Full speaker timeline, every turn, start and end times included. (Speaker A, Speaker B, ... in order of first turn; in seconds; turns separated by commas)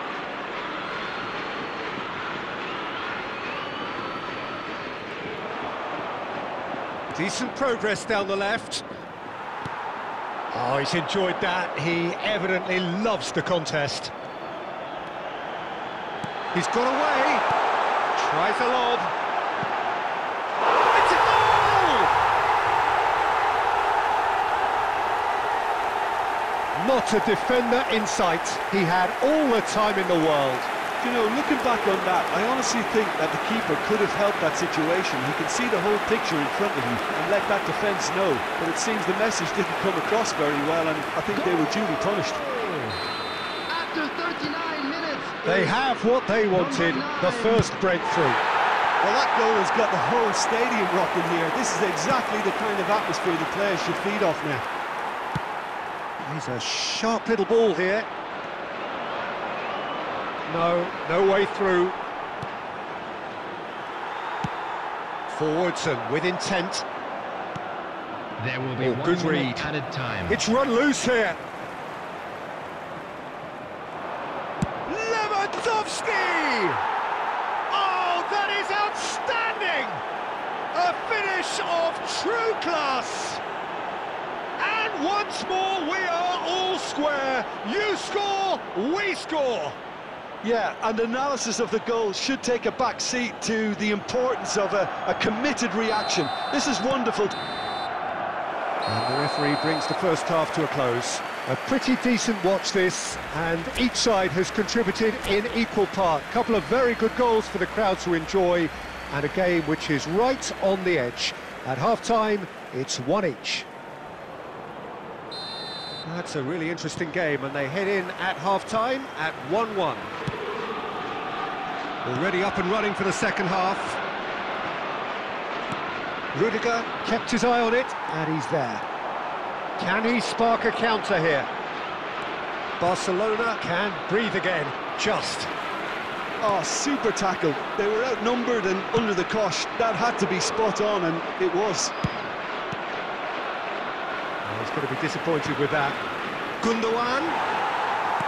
Speaker A: 7.1-8.8, Speaker A: 10.5-14.1, Speaker A: 16.5-17.4, Speaker A: 18.1-19.1, Speaker A: 20.9-22.1, Speaker A: 26.8-30.7, Speaker B: 31.0-42.4, Speaker C: 42.4-42.9, Speaker C: 43.7-45.8, Speaker A: 45.4-48.4, Speaker C: 46.5-47.7, Speaker B: 49.0-54.7, Speaker A: 56.2-58.1, Speaker A: 60.5-62.0, Speaker A: 65.3-66.9, Speaker C: 68.4-70.4, Speaker A: 68.8-69.7, Speaker A: 70.3-71.4, Speaker A: 74.9-76.8, Speaker A: 77.7-80.0, Speaker A: 80.7-83.4, Speaker A: 84.6-89.8, Speaker B: 90.4-97.3, Speaker A: 98.9-113.7, Speaker A: 116.0-120.1, Speaker A: 122.0-124.0, Speaker A: 126.3-128.8, Speaker A: 129.8-131.5, Speaker A: 132.8-135.5, Speaker B: 136.4-141.9, Speaker A: 144.4-146.0, Speaker A: 146.6-147.4